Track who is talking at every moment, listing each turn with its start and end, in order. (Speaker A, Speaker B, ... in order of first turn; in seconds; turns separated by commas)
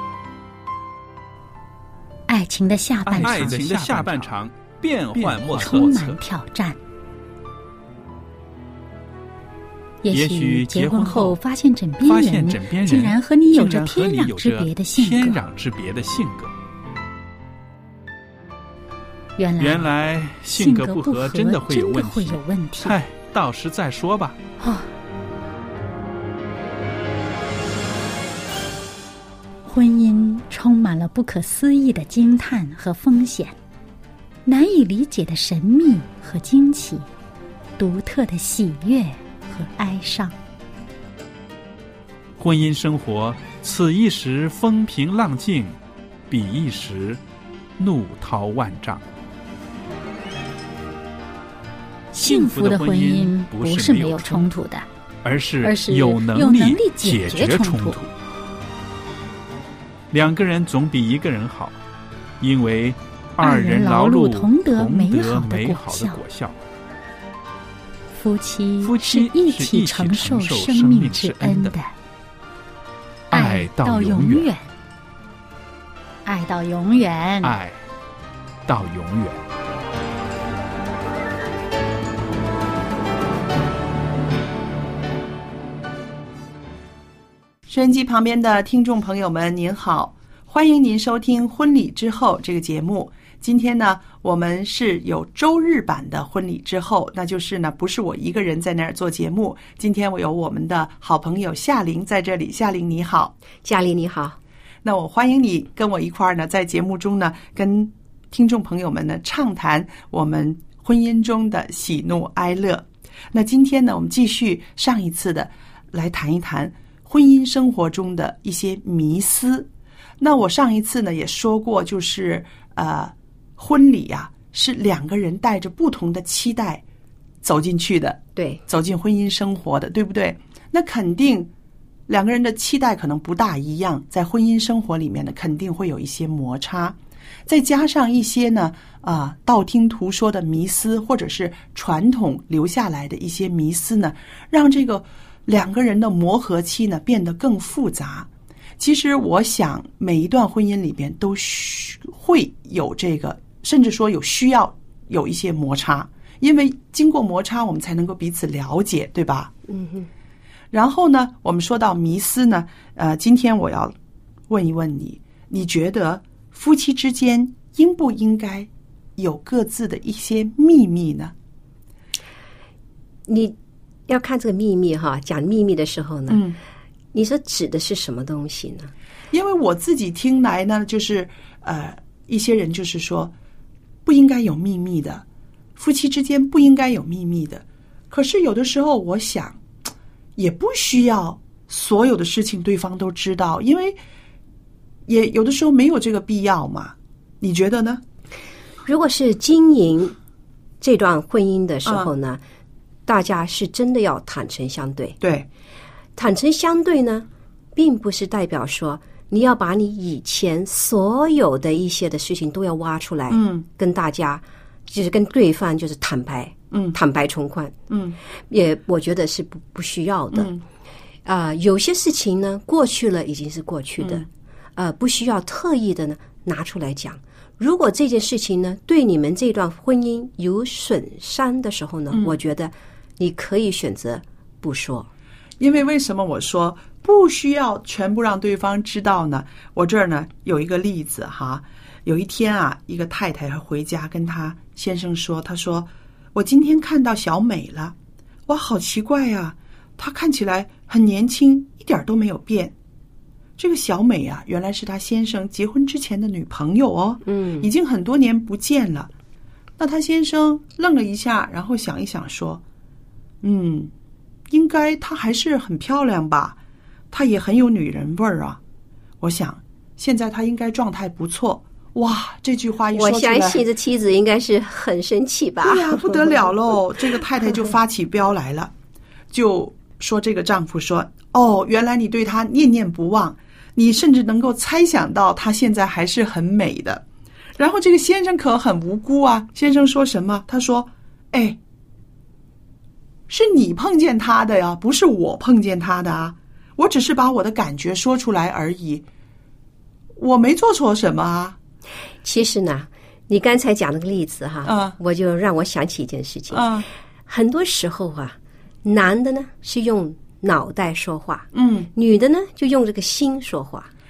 Speaker A: 2.3-4.2, Speaker B: 3.0-6.2, Speaker A: 5.1-6.8, Speaker A: 10.0-15.4, Speaker B: 10.1-11.4, Speaker B: 12.0-16.5, Speaker A: 19.4-19.9, Speaker B: 19.6-24.4, Speaker A: 20.5-23.0, Speaker A: 24.6-24.9, Speaker A: 29.7-33.5, Speaker A: 34.5-37.0, Speaker A: 37.8-40.3, Speaker B: 42.4-45.8, Speaker B: 46.3-47.2, Speaker B: 47.8-49.0, Speaker B: 52.1-54.5, Speaker A: 52.1-54.9, Speaker B: 55.2-58.1, Speaker A: 55.6-58.0, Speaker B: 60.1-61.8, Speaker B: 62.4-66.6, Speaker A: 63.4-66.2, Speaker A: 68.2-71.9, Speaker B: 68.8-71.8, Speaker B: 73.3-74.5, Speaker A: 73.3-74.7, Speaker A: 76.2-77.5, Speaker B: 77.4-77.8, Speaker B: 78.7-79.4, Speaker C: 87.7-103.3, Speaker D: 103.6-104.4, Speaker C: 104.8-119.7, Speaker C: 120.2-126.8, Speaker C: 127.4-131.5, Speaker D: 128.4-128.6, Speaker C: 132.1-137.0, Speaker C: 137.5-159.5, Speaker D: 159.7-160.1, Speaker C: 160.7-163.9, Speaker C: 164.5-171.3, Speaker D: 173.3-173.6, Speaker D: 174.1-176.4, Speaker C: 176.3-176.6, Speaker D: 177.1-178.9, Speaker C: 179.3-183.3, Speaker C: 184.1-185.2, Speaker C: 185.8-189.6, Speaker C: 190.4-194.0, Speaker C: 195.1-198.0, Speaker D: 198.8-200.2, Speaker D: 200.8-202.4, Speaker C: 201.8-202.1, Speaker D: 203.1-205.2, Speaker C: 205.2-205.5, Speaker D: 206.2-217.8, Speaker C: 213.3-213.7, Speaker C: 216.7-217.0, Speaker C: 217.9-218.2, Speaker D: 218.5-220.5, Speaker C: 220.3-220.6, Speaker D: 221.2-235.1, Speaker C: 224.0-224.3, Speaker C: 232.1-232.4, Speaker C: 235.6-248.0, Speaker C: 248.5-252.8, Speaker C: 253.6-259.1, Speaker D: 257.3-257.7, Speaker C: 259.8-262.6, Speaker C: 263.4-263.9, Speaker C: 264.5-266.6, Speaker C: 267.1-268.6, Speaker C: 269.2-273.7, Speaker D: 272.9-276.3, Speaker C: 275.6-278.7, Speaker C: 279.3-287.0, Speaker C: 287.6-291.6, Speaker C: 293.3-299.1, Speaker C: 300.2-301.6, Speaker D: 302.2-313.9, Speaker C: 304.6-305.0, Speaker C: 306.5-306.9, Speaker C: 311.5-311.9